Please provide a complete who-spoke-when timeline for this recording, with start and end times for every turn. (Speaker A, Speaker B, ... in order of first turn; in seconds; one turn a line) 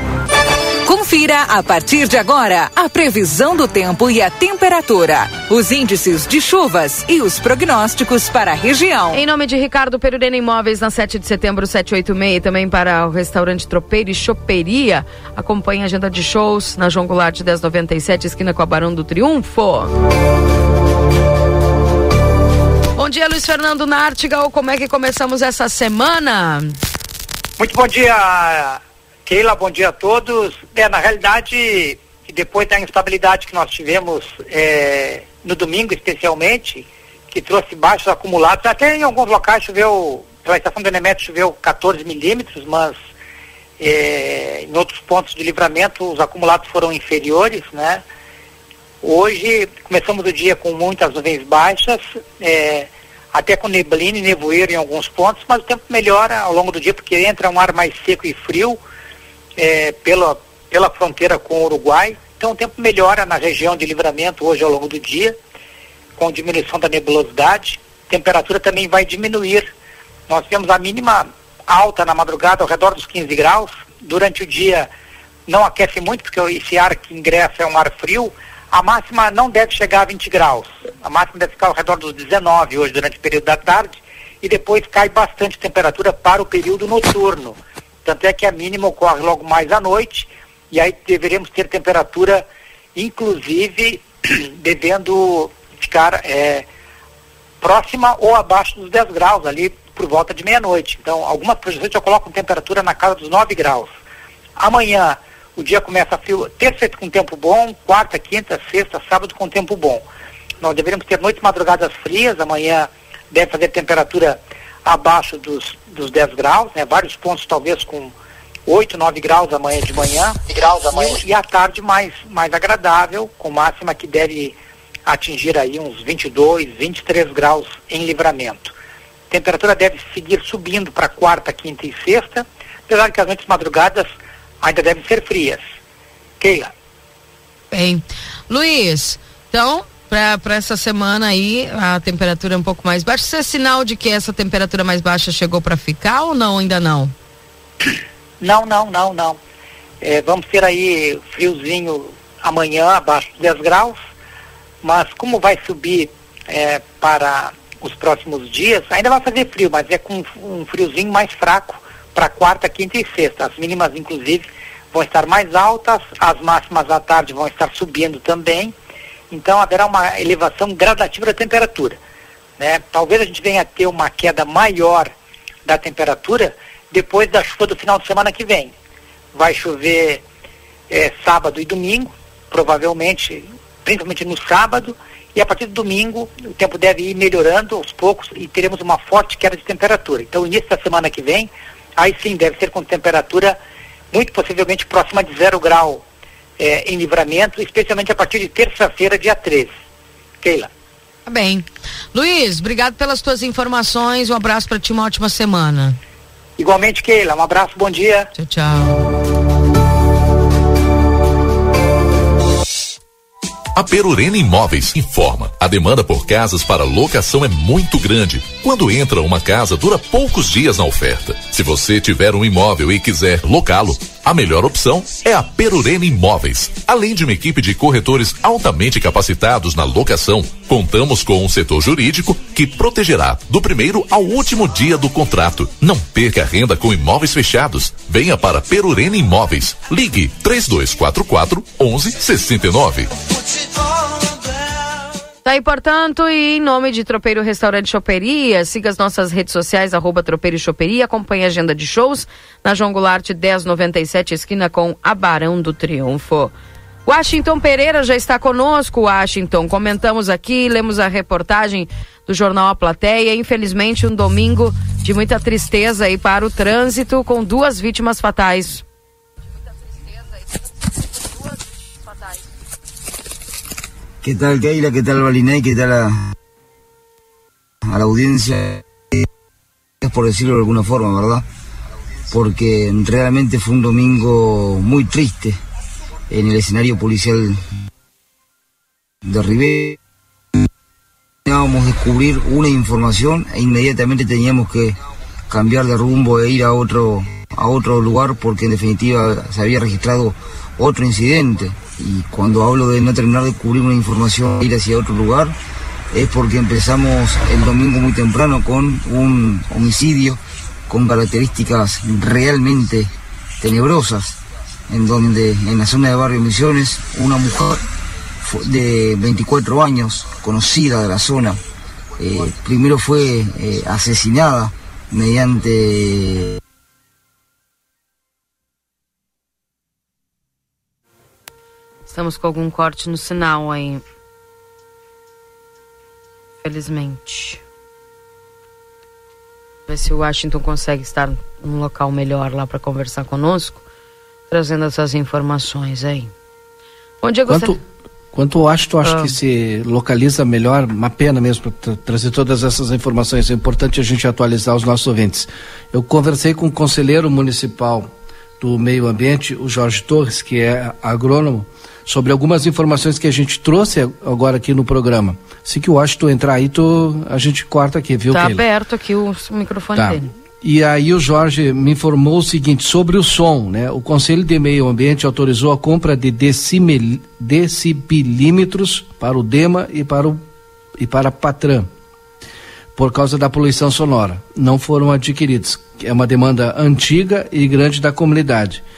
Speaker A: 0.8-9.2
Speaker B: 9.1-19.9
Speaker B: 22.9-26.7
Speaker C: 27.6-43.0
Speaker C: 43.8-48.0
Speaker C: 49.0-58.8
Speaker C: 59.6-65.3
Speaker C: 66.2-69.7
Speaker C: 70.3-74.9
Speaker C: 75.5-92.4
Speaker C: 92.9-96.7
Speaker C: 97.6-103.9
Speaker C: 104.6-110.0
Speaker C: 110.6-118.1
Speaker C: 118.7-124.5
Speaker C: 125.0-128.7
Speaker C: 129.3-134.1
Speaker C: 134.6-135.6
Speaker C: 136.4-136.7
Speaker B: 137.7-147.1
Speaker C: 148.4-149.4
Speaker C: 150.0-154.0
Speaker C: 154.8-168.7
Speaker C: 169.3-172.0
Speaker C: 172.6-175.1
Speaker C: 175.7-178.7
Speaker C: 179.3-180.2
Speaker C: 180.9-193.6
Speaker C: 194.1-196.0
Speaker C: 196.6-199.7
Speaker C: 200.4-200.7
Speaker B: 201.2-206.0
Speaker C: 206.6-208.3
Speaker B: 208.3-209.1
Speaker D: 213.7-243.1
Speaker B: 245.4-256.5
Speaker B: 257.1-268.8
Speaker E: 274.2-276.2
Speaker E: 277.9-278.8
Speaker E: 280.0-281.4
Speaker E: 282.3-285.6
Speaker E: 286.3-287.6
Speaker E: 289.2-290.0
Speaker E: 291.4-295.0
Speaker E: 295.5-305.5
Speaker E: 306.1-314.4
Speaker E: 314.9-317.8
Speaker E: 318.4-321.6
Speaker E: 322.2-326.6
Speaker B: 332.1-334.0
Speaker B: 336.6-337.6
Speaker B: 339.9-343.8
Speaker B: 344.5-346.3
Speaker B: 347.2-347.8
Speaker F: 347.5-347.8
Speaker F: 348.3-368.6
Speaker B: 349.0-349.3
Speaker B: 368.3-370.3
Speaker F: 369.9-380.4
Speaker F: 381.0-381.9
Speaker F: 382.9-388.8